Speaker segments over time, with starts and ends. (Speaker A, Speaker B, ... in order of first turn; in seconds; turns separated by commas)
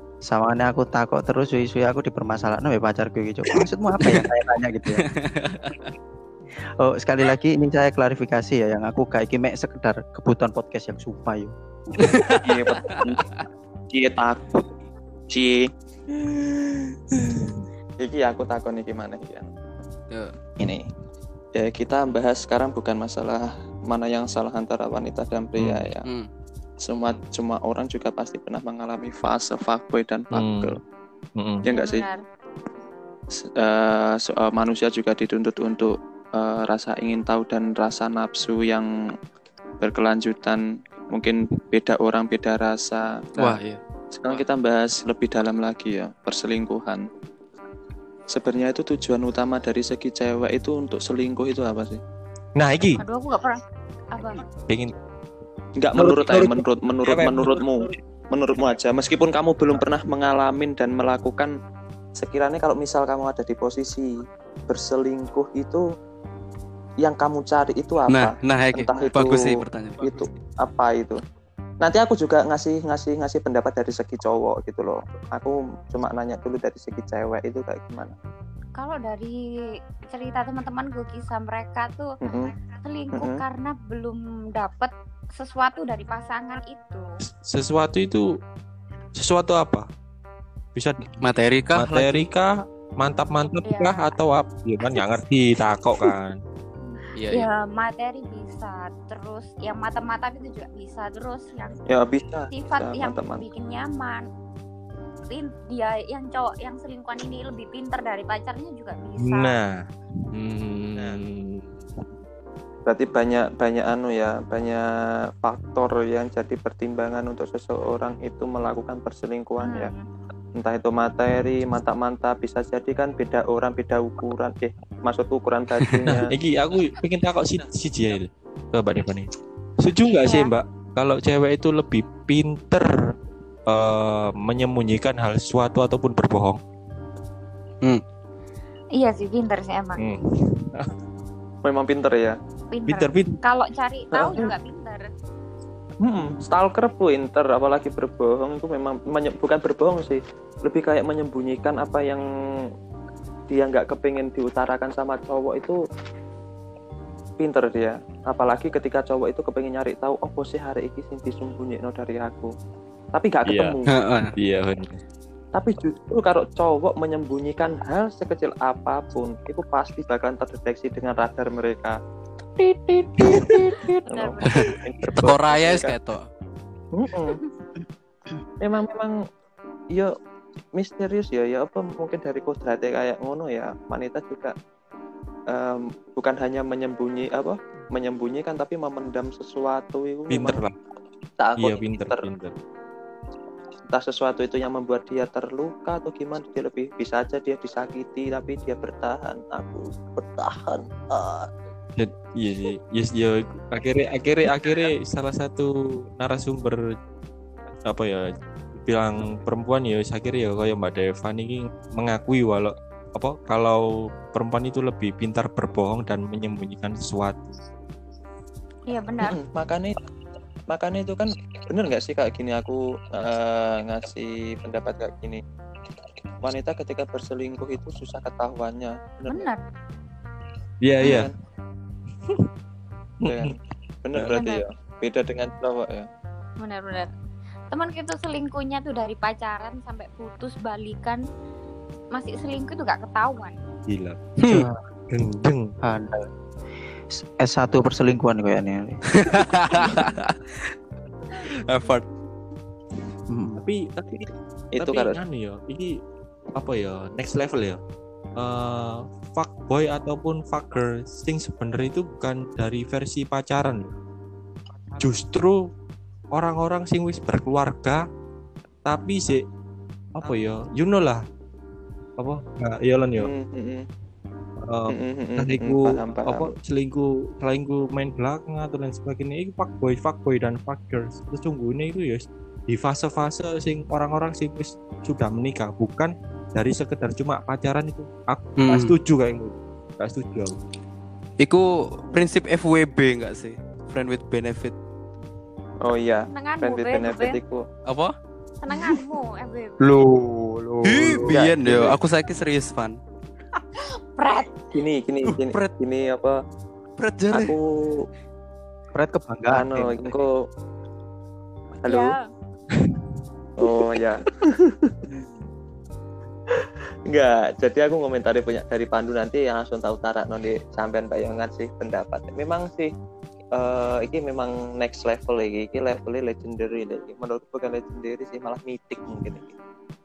Speaker A: 0.3-5.1, Speaker B: 5.1-5.9, Speaker A: 6.8-11.5, Speaker B: 12.0-13.2, Speaker C: 12.3-13.3, Speaker C: 13.9-14.7, Speaker C: 15.3-15.7, Speaker D: 16.1-17.7, Speaker C: 18.0-19.5, Speaker C: 21.6-26.0, Speaker D: 25.6-25.9, Speaker C: 26.8-30.8, Speaker D: 30.3-30.8, Speaker D: 31.4-31.6, Speaker C: 31.6-32.0, Speaker E: 31.6-32.2, Speaker C: 33.6-38.9, Speaker C: 39.8-40.6, Speaker C: 41.1-43.6, Speaker B: 43.4-44.4, Speaker C: 44.1-47.0, Speaker C: 48.3-52.0, Speaker D: 52.5-53.0, Speaker E: 53.0-53.6, Speaker E: 54.1-54.4, Speaker D: 54.7-54.9, Speaker C: 55.8-61.5, Speaker D: 55.9-57.9, Speaker C: 62.2-64.1, Speaker C: 64.7-65.8, Speaker C: 67.0-69.5, Speaker B: 68.1-70.2, Speaker C: 70.0-71.2, Speaker C: 71.8-78.1, Speaker E: 78.8-79.4, Speaker E: 80.0-82.1, Speaker C: 82.2-82.5, Speaker E: 82.7-87.0, Speaker C: 83.1-83.4, Speaker D: 87.4-88.2, Speaker D: 89.2-89.9, Speaker D: 90.7-91.2, Speaker B: 91.2-92.2, Speaker D: 91.7-96.4, Speaker E: 93.6-94.2, Speaker B: 97.2-97.5, Speaker E: 97.3-101.8, Speaker C: 101.9-103.4, Speaker E: 102.5-104.2, Speaker E: 105.3-109.6, Speaker D: 109.2-109.8, Speaker D: 110.3-111.8, Speaker C: 112.8-114.8, Speaker C: 115.4-119.9, Speaker E: 119.6-120.0, Speaker C: 120.6-126.3, Speaker D: 126.0-129.3, Speaker D: 129.8-132.9, Speaker E: 130.1-130.5, Speaker D: 133.7-136.6, Speaker E: 138.9-140.1, Speaker D: 140.0-140.9, Speaker C: 141.6-142.4, Speaker E: 142.7-145.1, Speaker D: 142.8-143.4, Speaker C: 144.1-144.5, Speaker C: 146.0-152.2, Speaker C: 153.5-155.8, Speaker C: 157.4-162.5, Speaker C: 163.1-163.9, Speaker D: 163.4-163.8, Speaker B: 163.9-164.3, Speaker D: 164.3-165.0, Speaker C: 165.5-172.0, Speaker C: 172.6-175.9, Speaker D: 173.2-173.7, Speaker E: 174.1-174.7, Speaker B: 174.5-176.2, Speaker C: 176.9-177.4, Speaker C: 178.6-179.1, Speaker C: 180.7-184.5, Speaker C: 185.5-190.6, Speaker D: 190.3-190.8, Speaker C: 191.4-192.3, Speaker D: 191.6-192.5, Speaker C: 193.9-201.5, Speaker D: 201.9-206.8, Speaker D: 207.8-217.6, Speaker E: 218.9-219.4, Speaker C: 219.2-220.0, Speaker C: 220.7-225.4, Speaker C: 226.4-229.5, Speaker E: 229.3-229.6, Speaker D: 230.8-231.3, Speaker C: 231.0-231.3, Speaker D: 233.2-233.5, Speaker C: 233.3-233.5, Speaker C: 234.0-236.1, Speaker E: 234.3-234.6, Speaker E: 236.6-237.1, Speaker E: 237.7-241.2, Speaker E: 242.1-243.6, Speaker D: 243.9-245.7, Speaker B: 244.4-244.7, Speaker A: 245.8-246.2, Speaker A: 247.2-249.0, Speaker B: 249.1-250.7, Speaker B: 251.3-252.0, Speaker A: 253.3-253.6, Speaker D: 253.6-255.9, Speaker C: 254.8-255.2, Speaker D: 256.6-257.8, Speaker D: 258.4-263.9, Speaker D: 265.0-265.6, Speaker D: 266.3-268.0, Speaker D: 268.8-269.4, Speaker D: 270.1-271.2, Speaker C: 270.2-270.5, Speaker D: 272.2-273.3, Speaker C: 273.2-273.9, Speaker D: 274.6-290.6, Speaker C: 274.9-276.5, Speaker B: 288.6-288.9, Speaker B: 291.4-294.7, Speaker C: 295.8-297.6, Speaker E: 296.3-297.4, Speaker B: 297.9-298.1, Speaker E: 298.6-300.0, Speaker A: 299.8-301.4, Speaker B: 300.8-303.0, Speaker C: 301.3-301.9, Speaker E: 303.9-304.7, Speaker C: 304.7-306.3, Speaker B: 305.2-305.7, Speaker B: 307.0-307.6, Speaker C: 307.3-308.1, Speaker A: 308.9-310.2, Speaker C: 309.5-310.4, Speaker C: 311.8-312.1, Speaker E: 311.9-312.3, Speaker D: 312.7-313.0, Speaker C: 313.6-314.9, Speaker C: 316.5-322.9, Speaker C: 323.5-329.6